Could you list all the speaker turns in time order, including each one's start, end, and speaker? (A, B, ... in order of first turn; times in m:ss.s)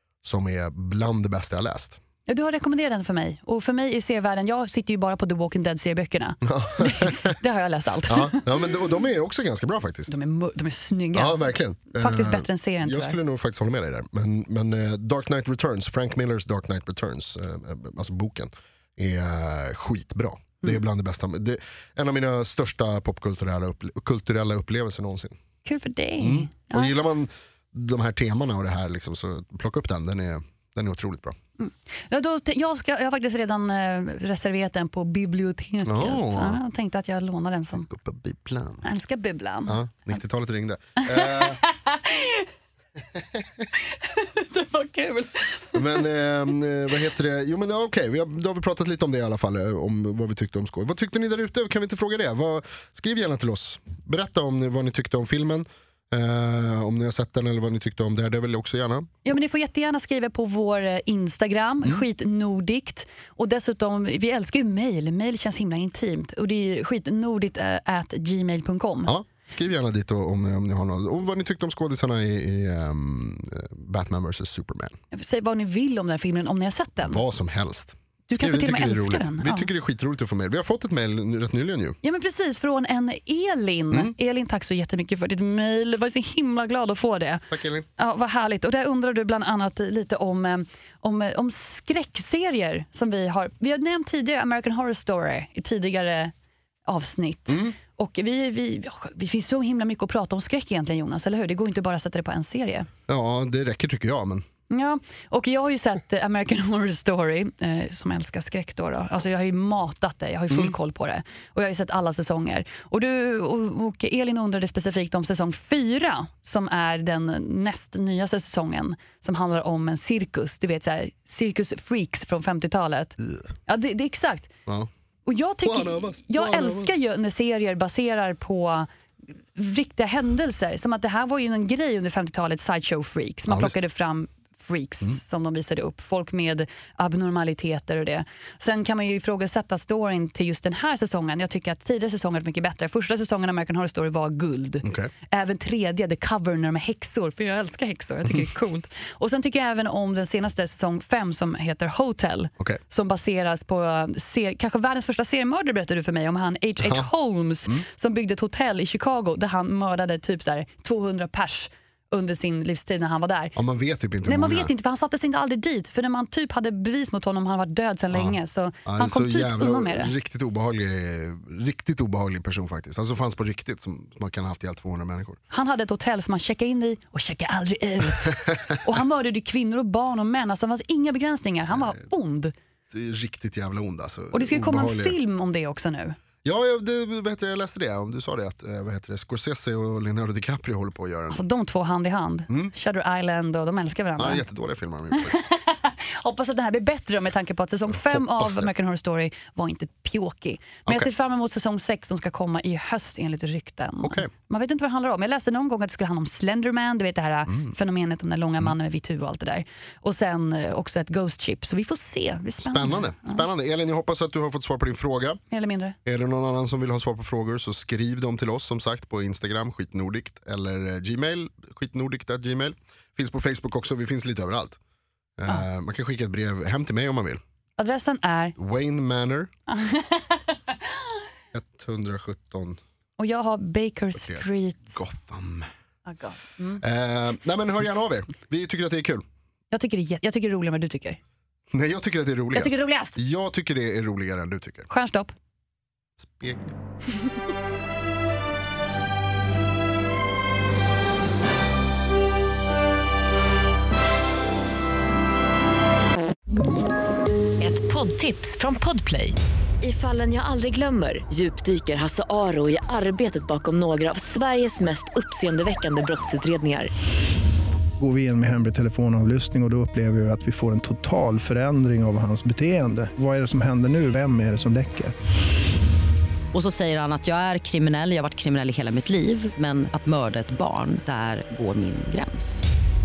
0:00.2-0:02.0 A
0:02.3-0:08.5 B
0:06.4-0:07.3 A
0:08.1-0:10.1 A
0:10.1-0:11.4 B
0:11.1-0:25.4 A
0:12.0-0:13.2 B
0:25.6-0:26.9 B
0:26.2-0:31.4 A
0:31.6-0:37.9 B
0:35.8-0:36.6 A
0:37.8-0:38.8 A
0:38.8-0:39.8 B
0:39.7-0:41.6 A
0:41.0-0:42.5 B
0:43.2-0:43.6 A
0:43.8-0:46.0 B
0:45.7-0:59.1 A
0:59.2-1:09.1 B
1:09.1-1:15.0 A
1:15.1-1:17.2 B
1:17.1-1:22.0 A
1:18.3-1:19.7 B
1:22.0-1:36.3 B
1:27.5-1:27.9 A
1:36.8-1:42.9 B
1:37.5-1:37.7 A
1:43.1-1:44.4 A
1:44.7-2:04.5 B
2:05.2-2:08.9 B
2:05.6-2:07.0 A
2:09.5-2:43.5 B
2:13.5-2:13.8 A
2:24.8-2:25.1 A
2:36.8-2:37.1 A
2:43.5-2:44.7 A
2:44.2-2:50.1 B
2:48.8-2:55.4 A
2:55.5-3:02.5 B
3:02.9-3:05.2 A
3:04.3-3:06.2 B
3:06.4-3:11.4 A
3:11.3-3:14.4 B
3:14.2-3:15.5 A
3:15.1-3:33.4 B
3:17.9-3:18.7 A
3:24.0-3:24.3 A
3:32.6-3:35.4 A
3:35.5-3:36.0 B
3:36.0-3:44.8 A
3:45.4-3:47.4 A
3:47.8-3:48.6 B
3:48.6-3:49.5 A
3:49.7-3:50.4 B
3:51.5-3:52.8 A
3:53.2-3:55.0 B
3:54.2-3:55.7 A
3:56.1-3:56.8 B
3:56.8-3:59.2 A
3:59.7-4:01.2 B
4:01.7-4:04.9 A
4:02.5-4:03.2 B
4:04.9-4:05.3 B
4:06.2-4:06.7 A
4:17.6-4:26.9 C
4:28.0-4:35.1 D
4:36.5-4:42.6 E